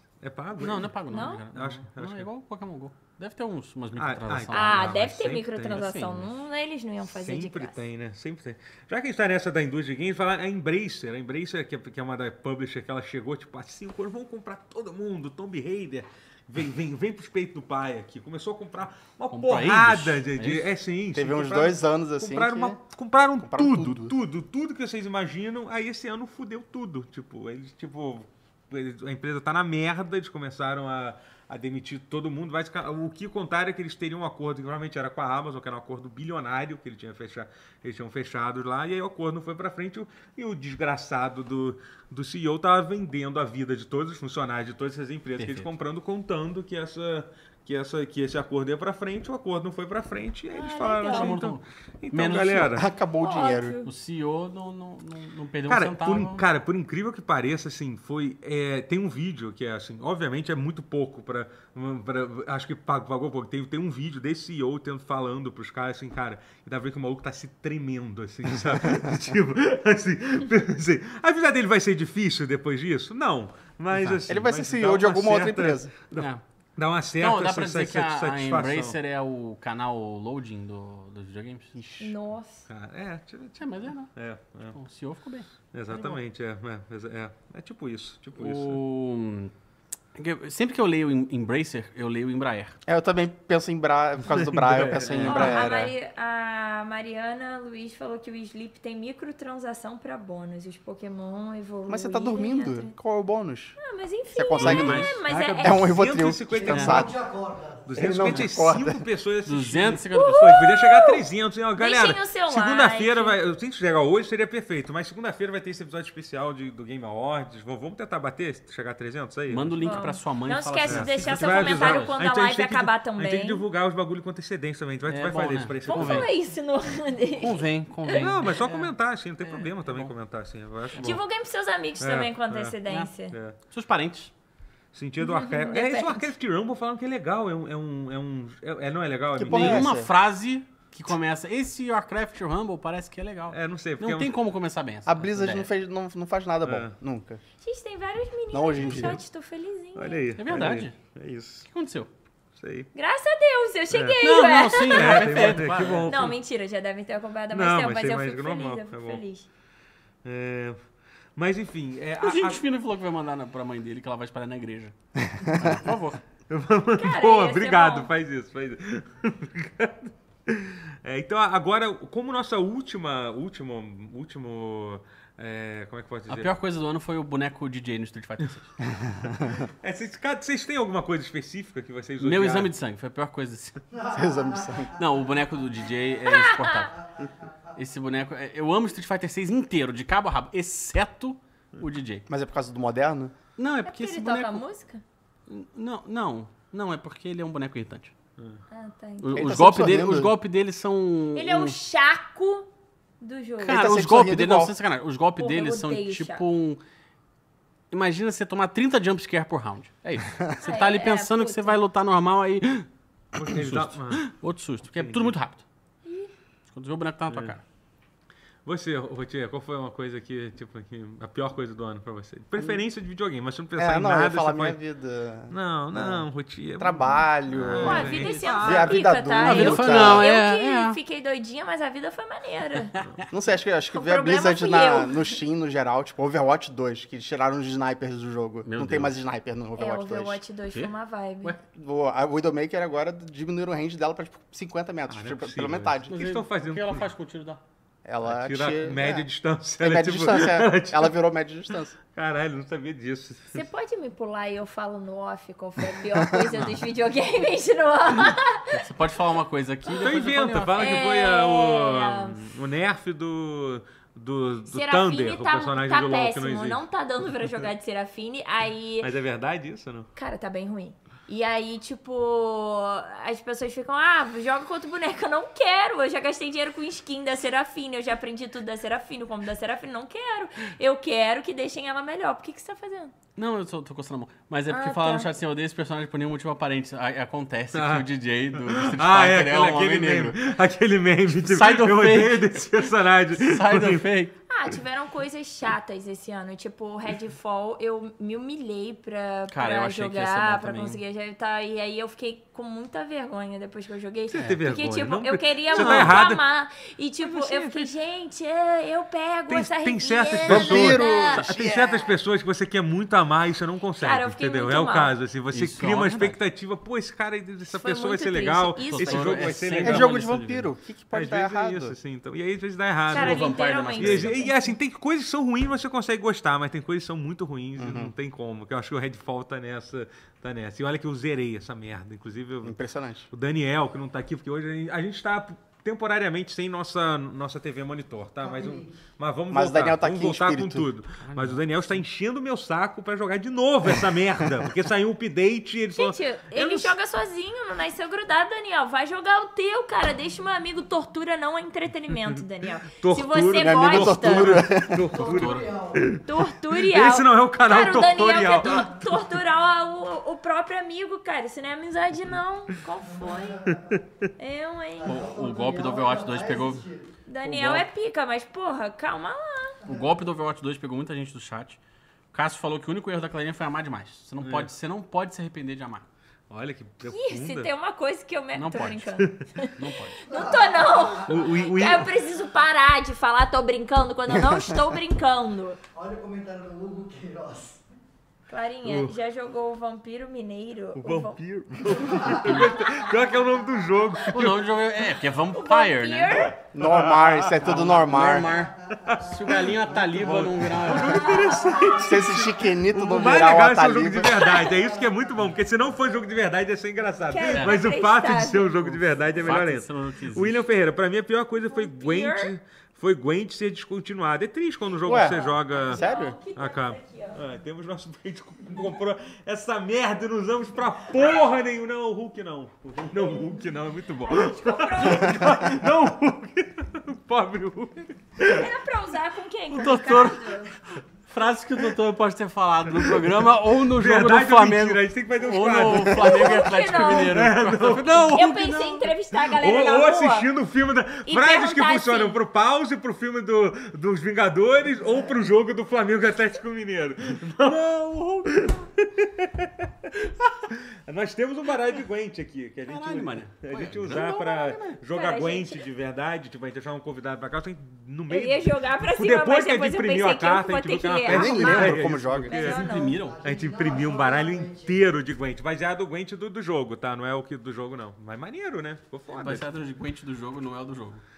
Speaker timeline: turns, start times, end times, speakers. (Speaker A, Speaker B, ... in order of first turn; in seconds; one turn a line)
Speaker A: 0.2-2.3
Speaker B: 0.6-5.1
Speaker C: 1.1-1.4
Speaker A: 3.9-5.9
Speaker C: 4.5-7.8
Speaker B: 5.6-6.3
Speaker A: 7.1-52.9
Speaker B: 19.3-20.7
Speaker D: 21.1-22.8
Speaker D: 23.4-24.1
Speaker B: 45.4-45.7
Speaker C: 50.5-51.3
Speaker B: 51.0-52.8
Speaker D: 52.7-53.8
Speaker C: 53.2-53.9
Speaker B: 53.8-56.4
Speaker A: 55.7-79.0
Speaker D: 74.2-75.9
Speaker B: 76.1-76.4
Speaker B: 77.2-81.7
Speaker D: 81.7-82.2
Speaker C: 82.0-82.7
Speaker A: 82.7-84.8
Speaker B: 83.6-84.1
Speaker B: 84.7-85.5
Speaker A: 85.7-88.8
Speaker B: 88.3-89.5
Speaker B: 90.1-92.8
Speaker D: 92.8-95.9
Speaker A: 94.3-95.9
Speaker C: 95.2-102.9
Speaker D: 101.9-103.8
Speaker C: 103.8-106.0
Speaker D: 104.3-107.1
Speaker B: 104.5-105.1
Speaker A: 105.3-107.2
Speaker E: 106.5-108.3
Speaker A: 107.9-120.0
Speaker D: 107.9-109.0
Speaker B: 109.4-110.5
Speaker C: 110.1-111.2
Speaker C: 111.8-113.4
Speaker B: 119.5-122.2
Speaker C: 119.8-123.6
Speaker A: 120.9-126.3
Speaker B: 125.1-126.3
Speaker C: 125.9-128.2
Speaker B: 127.4-130.1
Speaker A: 128.2-131.2
Speaker C: 131.0-133.4
Speaker A: 132.0-132.8
Speaker A: 133.3-133.6
Speaker B: 133.7-134.3
Speaker A: 134.9-139.9
Speaker C: 135.2-136.3
Speaker D: 139.3-140.1
Speaker B: 139.4-145.7
Speaker A: 143.5-144.3
Speaker D: 145.1-147.4
Speaker A: 146.6-146.9
Speaker C: 147.6-150.2
Speaker D: 148.5-149.2
Speaker A: 148.8-149.2
Speaker A: 149.9-151.7
Speaker B: 150.3-151.0
Speaker B: 151.7-152.1
Speaker A: 152.6-152.9
Speaker C: 152.9-159.5
Speaker A: 153.9-154.2
Speaker B: 154.2-156.3
Speaker A: 154.8-156.4
Speaker A: 157.5-159.2
Speaker A: 160.2-160.8
Speaker A: 161.3-162.6
Speaker B: 162.2-166.2
Speaker A: 166.5-176.5
Speaker C: 166.9-168.1
Speaker B: 176.3-178.7
Speaker D: 178.9-179.6
Speaker A: 179.6-182.7
Speaker B: 182.2-183.8
Speaker E: 183.9-185.2
Speaker D: 184.1-184.9
Speaker B: 185.0-187.0
Speaker C: 186.2-186.9
Speaker E: 186.9-187.6
Speaker B: 187.8-192.2
Speaker D: 192.3-193.3
Speaker B: 193.6-194.6
Speaker C: 193.8-195.0
Speaker B: 195.5-198.1
Speaker C: 198.7-199.5
Speaker B: 199.2-201.8
Speaker D: 199.3-200.3
Speaker C: 201.3-202.7
Speaker C: 203.2-203.8
Speaker B: 203.6-206.8
Speaker D: 203.6-204.8
Speaker C: 205.4-206.4
Speaker B: 207.9-212.9
Speaker C: 210.6-211.8
Speaker A: 213.3-214.2
Speaker B: 213.4-215.6
Speaker A: 214.9-215.3
Speaker C: 216.0-216.3
Speaker B: 216.7-217.6
Speaker A: 218.6-224.8
Speaker D: 223.8-230.3
Speaker A: 225.5-229.1
Speaker C: 227.7-233.0
Speaker B: 229.4-231.0
Speaker B: 232.9-233.2
Speaker D: 233.3-240.4
Speaker C: 233.9-235.3
Speaker B: 238.6-239.1
Speaker C: 239.8-241.5
Speaker D: 241.6-246.2
Speaker A: 245.1-247.1
Speaker B: 246.1-247.6
Speaker D: 248.0-249.3
Speaker A: 248.2-251.2
Speaker D: 249.8-251.9
Speaker A: 252.1-253.6
Speaker C: 253.5-258.9
Speaker B: 258.7-261.0
Speaker A: 259.9-266.8
Speaker C: 260.7-262.4
Speaker C: 264.7-269.1
Speaker A: 269.0-270.1
Speaker C: 270.1-283.1
Speaker B: 283.4-290.4
Speaker C: 284.7-285.3
Speaker A: 287.7-288.1
Speaker A: 288.6-294.1
Speaker B: 291.3-294.3
Speaker C: 294.5-311.5
Speaker B: 299.5-301.0
Speaker A: 304.3-306.4
Speaker B: 305.7-306.2
Speaker B: 307.2-307.9
Speaker A: 309.5-320.2
Speaker D: 310.4-311.8
Speaker C: 314.0-315.1
Speaker B: 315.5-316.4
Speaker C: 317.7-319.6
Speaker B: 318.9-320.7
Speaker D: 319.8-321.9
Speaker A: 321.1-332.8
Speaker B: 323.1-324.4
Speaker C: 323.1-324.7
Speaker D: 327.8-328.1
Speaker D: 332.6-333.3
Speaker A: 333.3-346.9
Speaker E: 338.4-339.0
Speaker D: 339.5-340.9
Speaker B: 341.2-342.0
Speaker C: 345.9-354.6
Speaker A: 352.1-359.3
Speaker D: 353.6-355.1
Speaker E: 355.0-356.2
Speaker B: 355.2-355.7
Speaker C: 356.2-363.6
Speaker E: 363.0-364.0
Speaker C: 364.4-365.1
Speaker E: 365.0-367.1
Speaker B: 365.1-366.8
Speaker C: 367.3-369.8
Speaker B: 367.4-367.9
Speaker B: 369.9-371.8
Speaker B: 372.3-376.1
Speaker A: 374.4-374.7
Speaker A: 376.5-377.7
Speaker C: 377.0-385.8
Speaker B: 378.5-379.1
Speaker B: 379.7-380.2
Speaker E: 380.2-381.6
Speaker A: 381.3-382.1
Speaker E: 385.9-387.8
Speaker C: 388.5-391.4
Speaker A: 388.8-389.1
Speaker A: 390.9-394.7
Speaker E: 391.9-392.6
Speaker C: 392.2-392.9
Speaker B: 394.3-396.5
Speaker C: 395.5-396.6
Speaker D: 396.7-398.6
Speaker A: 396.8-397.8
Speaker B: 397.6-401.7
Speaker E: 398.4-402.4
Speaker A: 399.0-416.0
Speaker C: 401.1-402.0
Speaker D: 402.0-404.4
Speaker C: 404.3-404.7
Speaker E: 404.4-406.4
Speaker C: 407.3-408.8
Speaker B: 407.5-407.9
Speaker B: 408.8-410.7
Speaker C: 411.6-412.5
Speaker D: 415.0-416.4
Speaker C: 415.2-417.4
Speaker A: 416.5-428.7
Speaker C: 424.3-425.7
Speaker C: 428.4-430.7
Speaker B: 429.7-430.6
Speaker B: 431.3-439.1
Speaker A: 432.9-438.8
Speaker C: 436.1-437.4
Speaker C: 438.2-440.5
Speaker A: 439.3-462.9
Speaker C: 441.2-442.4
Speaker B: 452.9-455.0
Speaker C: 455.1-455.8
Speaker C: 458.3-463.2
Speaker D: 461.2-462.6
Speaker B: 462.6-463.4
Speaker E: 462.6-465.0
Speaker A: 463.4-469.6
Speaker B: 469.3-471.2